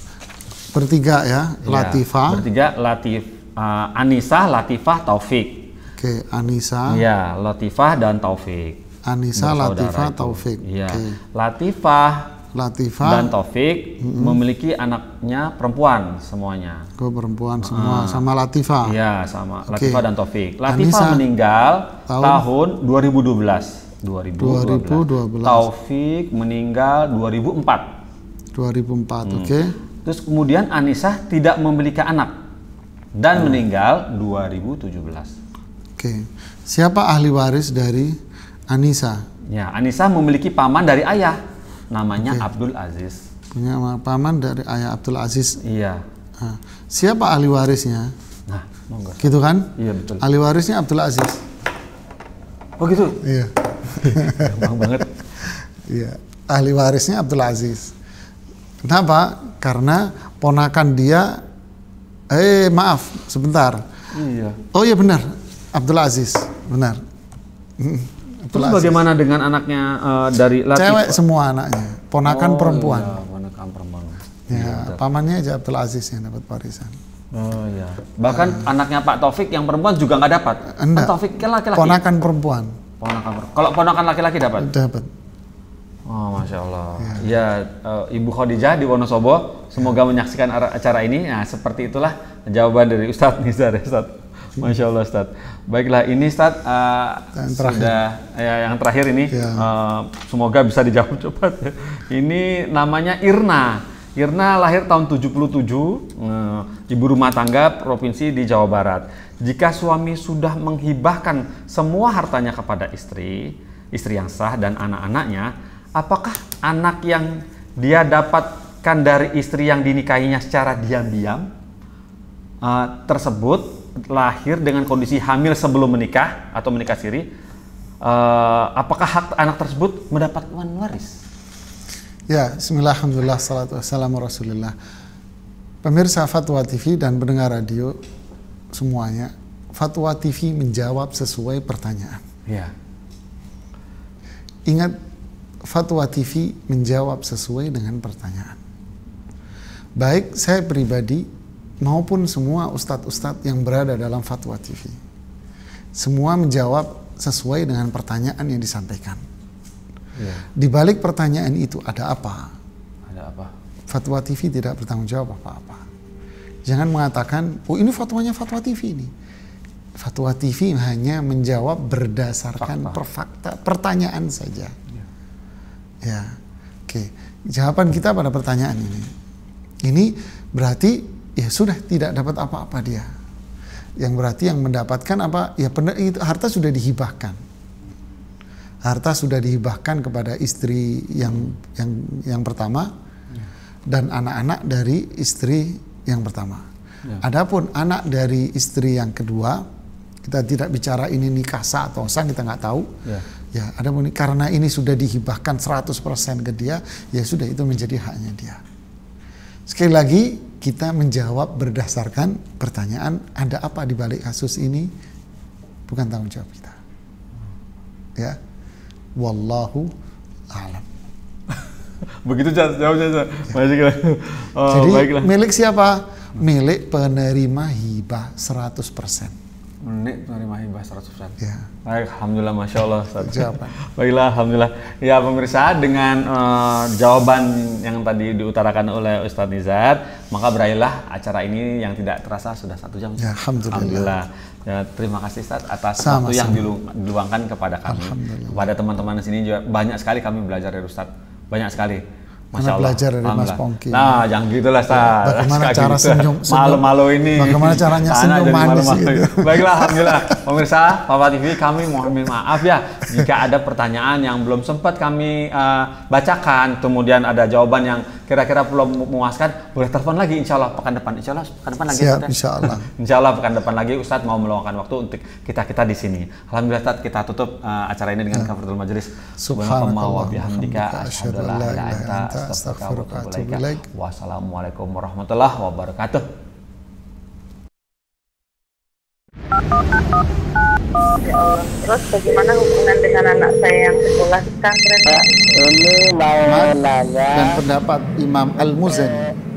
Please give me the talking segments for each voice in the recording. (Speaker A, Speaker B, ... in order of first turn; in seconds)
Speaker A: 0.7-2.5, 6.0-7.0, 9.1-11.2, 12.5-13.3, 14.0-14.4, 17.0-19.0, 19.7-20.0, 20.7-21.2, 22.1-22.4, 24.4-25.7, 28.6-29.8, 36.0-38.2, 38.7-39.2, 42.2-42.5, 43.5-45.6, 46.4-48.1, 49.2-51.5, 53.2-55.0, 55.8-57.9, 58.8-61.4, 62.3-63.8, 64.7-67.0, 67.8-69.0, 70.7-73.2, 74.5-77.0, 78.3-78.6, 80.7-81.2, 81.7-82.8, 84.6-85.1, 87.0-87.3, 97.4-98.0, 99.3-99.7, 132.3-134.8, 135.8-138.0, 138.7-142.2, 144.7-145.0, 145.7-148.6, 150.0-151.3, 151.8-155.0, 156.0-159.2, 160.6-162.5, 163.9-165.8, 166.7-169.1, 170.0-174.8, 176.0-176.4, 176.9-179.1, 179.8-183.1, 184.0-187.4, 188.8-192.9, 193.9-196.7, 197.2-199.7, 200.2-202.9, 203.5-208.6, 209.7-214.9, 215.9-216.8, 219.2-219.9, 220.5-220.9, 224.7-229.4, 231.4-231.7, 233.2-233.7, 243.2-244.2, 246.0-246.7, 247.9-248.7, 252.6-254.2, 254.9-260.4, 271.9-272.9, 279.4-283.9, 296.4-299.4
Speaker B: 1.6-5.7, 6.9-8.8, 9.4-12.3, 13.0-16.9, 17.6-18.2, 18.8-27.9, 29.2-29.5, 30.1-32.3, 33.2-35.3, 39.5-41.4, 41.9-43.2, 45.6-46.0, 48.5-50.3, 52.8-53.2, 53.8-55.1, 64.1-64.6, 68.5-71.2, 72.2-75.0, 77.3-82.0, 83.0-84.7, 86.1-121.5, 122.6-127.3, 128.0-131.2, 142.5-142.7, 160.2-160.5, 163.1-163.5, 172.6-173.0, 222.2-225.3, 229.8-252.0, 252.5-286.3
Speaker C: 291.2-296.4